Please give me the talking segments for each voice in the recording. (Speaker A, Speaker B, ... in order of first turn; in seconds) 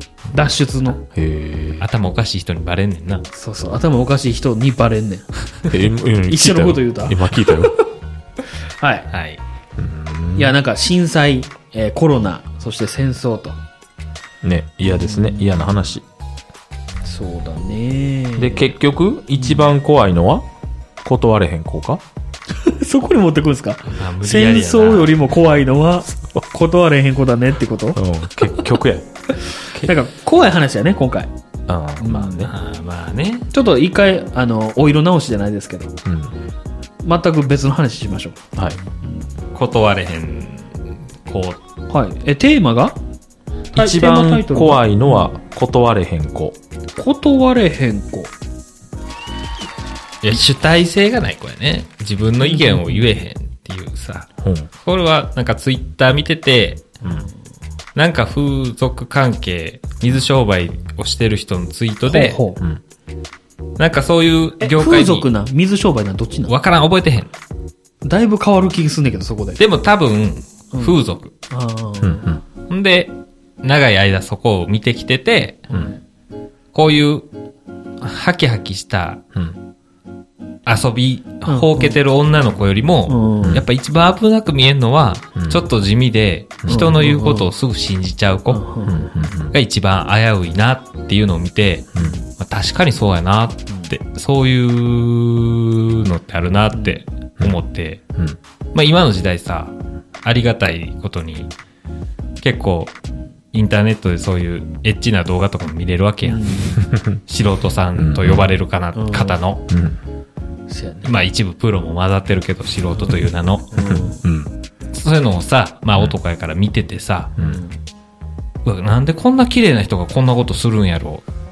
Speaker A: 0.3-1.0, 3.3-5.3, 6.3-7.8, 8.8-9.1, 10.3-13.6, 14.8-15.8, 17.0-18.7, 19.4-19.7, 22.6-28.7, 29.7-31.3, 32.0-32.5, 33.5-35.9, 37.0-38.4, 41.9-43.0, 43.7-45.3, 47.0-48.3, 52.4-53.1, 62.1-62.6, 64.6-66.5, 68.0-69.6, 70.7-71.0, 71.5-72.3, 75.7-76.0, 81.5-82.0, 83.1-83.6, 86.7-87.5, 88.5-89.0, 92.0-92.2, 96.7-97.0, 106.2-106.8, 108.9-109.4, 110.7-111.2, 112.9-114.2, 117.4-117.8
Speaker B: 1.1-1.8, 5.7-7.7, 9.8-10.5, 14.4-16.0, 18.4-20.4, 21.0-22.0, 27.9-29.1, 31.7-32.5, 36.0-36.4, 43.7-46.6, 54.4-54.7, 57.0-57.3, 72.0-72.4, 85.3-85.6, 88.8-89.5, 106.8-107.2, 108.0-108.5, 109.7-110.0, 113.8-114.5, 117.4-117.6
Speaker C: 1.8-3.2, 9.1-9.4, 23.9-25.2, 32.5-33.5, 39.5-41.6, 50.2-54.3, 54.8-56.9, 57.9-62.4, 63.8-65.3, 66.5-67.3, 69.6-71.3, 72.7-75.7, 76.7-77.3, 78.0-79.2, 80.7-88.6, 89.5-98.0, 98.7-101.5, 102.4-102.9, 103.5-106.7, 107.2-109.6, 111.0-113.7, 114.9-117.3, 118.6-121.2